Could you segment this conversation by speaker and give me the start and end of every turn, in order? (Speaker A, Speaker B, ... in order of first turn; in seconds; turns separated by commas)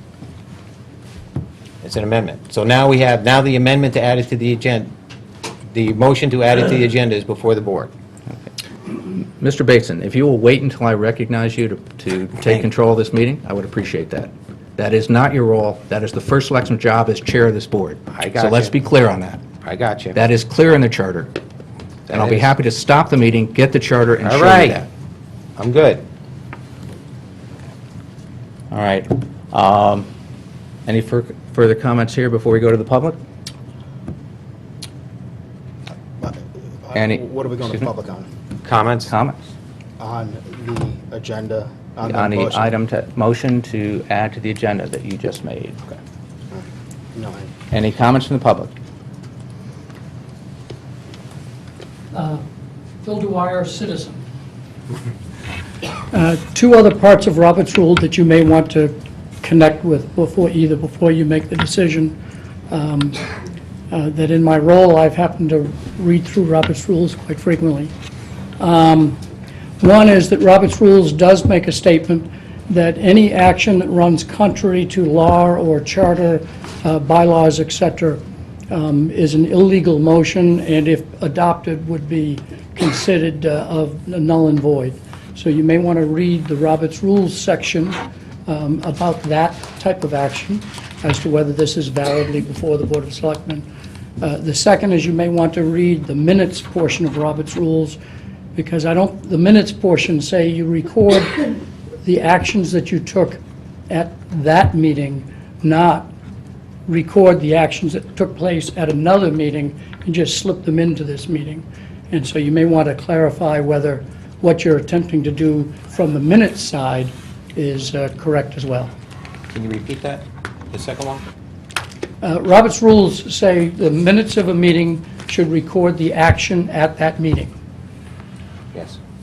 Speaker A: 1.8-4.9, Speaker A: 5.7-7.9, Speaker B: 9.0-19.4, Speaker A: 18.1-18.8, Speaker A: 19.6-20.2, Speaker B: 20.1-21.4, Speaker A: 22.1-22.5, Speaker B: 22.1-24.9, Speaker A: 24.2-24.9, Speaker A: 25.6-26.1, Speaker B: 28.7-30.1, Speaker B: 30.9-33.2, Speaker C: 36.2-38.3, Speaker B: 36.9-37.9, Speaker A: 38.6-39.1, Speaker B: 39.1-39.4, Speaker C: 40.0-42.7, Speaker B: 42.0-45.8, Speaker C: 46.5-47.5, Speaker B: 47.7-48.7, Speaker D: 52.1-52.4, Speaker D: 53.0-54.2, Speaker D: 56.1-62.2, Speaker D: 62.7-63.2, Speaker D: 63.9-67.9, Speaker D: 68.6-69.2, Speaker D: 69.8-93.7, Speaker D: 94.2-98.0, Speaker D: 98.5-106.1, Speaker D: 106.9-118.9, Speaker A: 119.5-121.2, Speaker D: 122.2-127.5